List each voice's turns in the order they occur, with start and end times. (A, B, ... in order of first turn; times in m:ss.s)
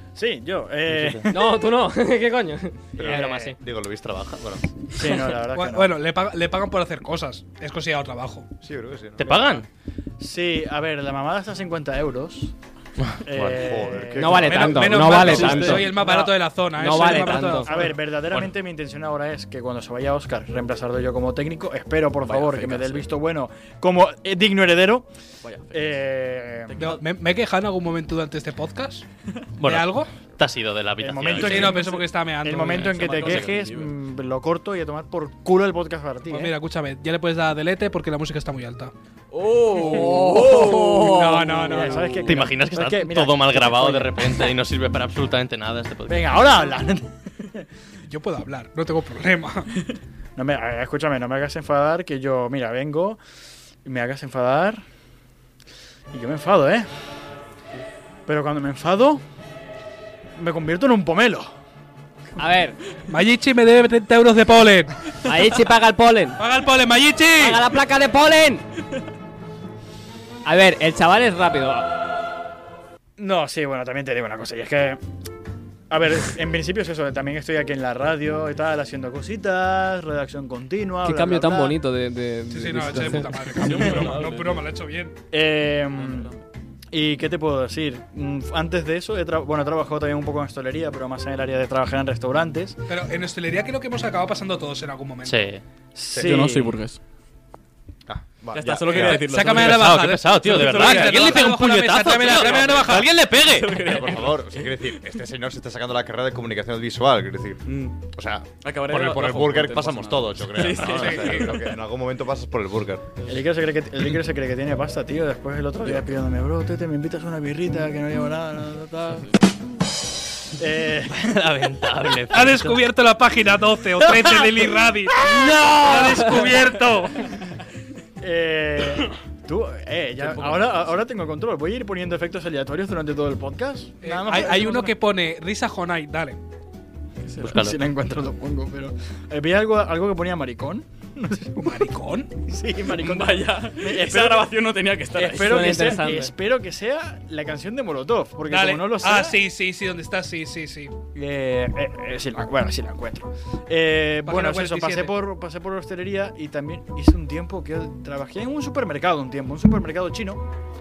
0:00.1-0:01.5 A
0:00.9-0:01.2 B
0:01.3-0:03.6 C
0:03.0-0:04.6 D
0:03.0-0:03.5 A
0:03.0-0:04.6 B
0:04.9-0:05.9 A
0:05.5-0:08.5 E
0:08.6-0:09.2 D
0:09.2-0:09.7 B
0:10.2-0:12.5 A
0:13.0-0:13.5 B
0:13.2-0:16.2 A
0:13.4-0:15.0 D
0:14.2-0:17.8 C
0:14.4-0:17.9 E
0:15.2-0:15.9 F
0:15.4-0:15.7 B
0:17.6-0:25.1 A
0:22.2-0:23.1 F
0:25.4-0:26.0 F
0:25.7-0:26.8 A
0:26.7-0:27.0 F
0:26.8-0:29.0 E
0:29.6-0:31.8 B
0:29.6-0:30.1 E
0:31.0-0:36.5 A
0:31.4-0:33.1 E
0:32.7-0:33.9 F
0:33.0-0:33.5 B
0:36.3-0:38.9 E
0:39.3-0:42.4 F
0:39.8-0:44.5 A
0:39.8-0:42.2 E
0:42.2-0:46.7 B
0:46.1-0:47.6 A
0:48.0-0:49.7 E
0:50.4-0:53.2 A
0:53.8-0:54.8 A
0:56.1-0:56.9 A
0:58.2-0:59.2 A
1:00.4-1:01.5 A
1:02.4-1:02.8 C
1:03.1-1:04.9 E
1:05.2-1:06.4 C
1:06.4-1:07.6 E
1:07.4-1:08.6 C
1:10.4-1:11.9 C
1:13.2-1:15.0 A
1:15.9-1:21.8 A
1:21.0-1:23.7 C
1:22.5-1:25.1 E
1:22.9-1:24.7 F
1:25.3-1:26.3 A
1:25.9-1:26.4 F
1:26.9-1:32.8 A
1:32.9-1:35.4 E
1:35.2-1:35.6 B
1:35.9-1:36.8 A
1:36.2-1:37.0 F
1:38.1-1:39.0 D
1:38.5-1:41.5 F
1:38.9-1:44.2 B
1:39.0-1:43.1 E
1:42.4-1:44.9 F
1:43.7-1:53.0 D
1:47.6-1:48.0 F
1:48.6-1:51.7 F
1:50.6-1:51.1 B
1:50.9-1:51.4 E
1:53.2-1:59.3 A
2:00.6-2:01.3 A
2:01.1-2:02.8 B
2:02.3-2:07.3 E
2:08.2-2:15.0 A
2:10.2-2:10.9 F
2:14.0-2:16.4 E
2:17.2-2:17.6 F
2:17.4-2:17.8 B
2:17.4-2:21.9 A
2:21.6-2:22.3 E
2:22.4-2:24.5 A
2:22.8-2:26.2 F
2:25.1-2:29.4 A
2:25.4-2:26.3 C
2:28.4-2:30.9 E
2:31.1-2:40.4 A
2:34.2-2:35.1 E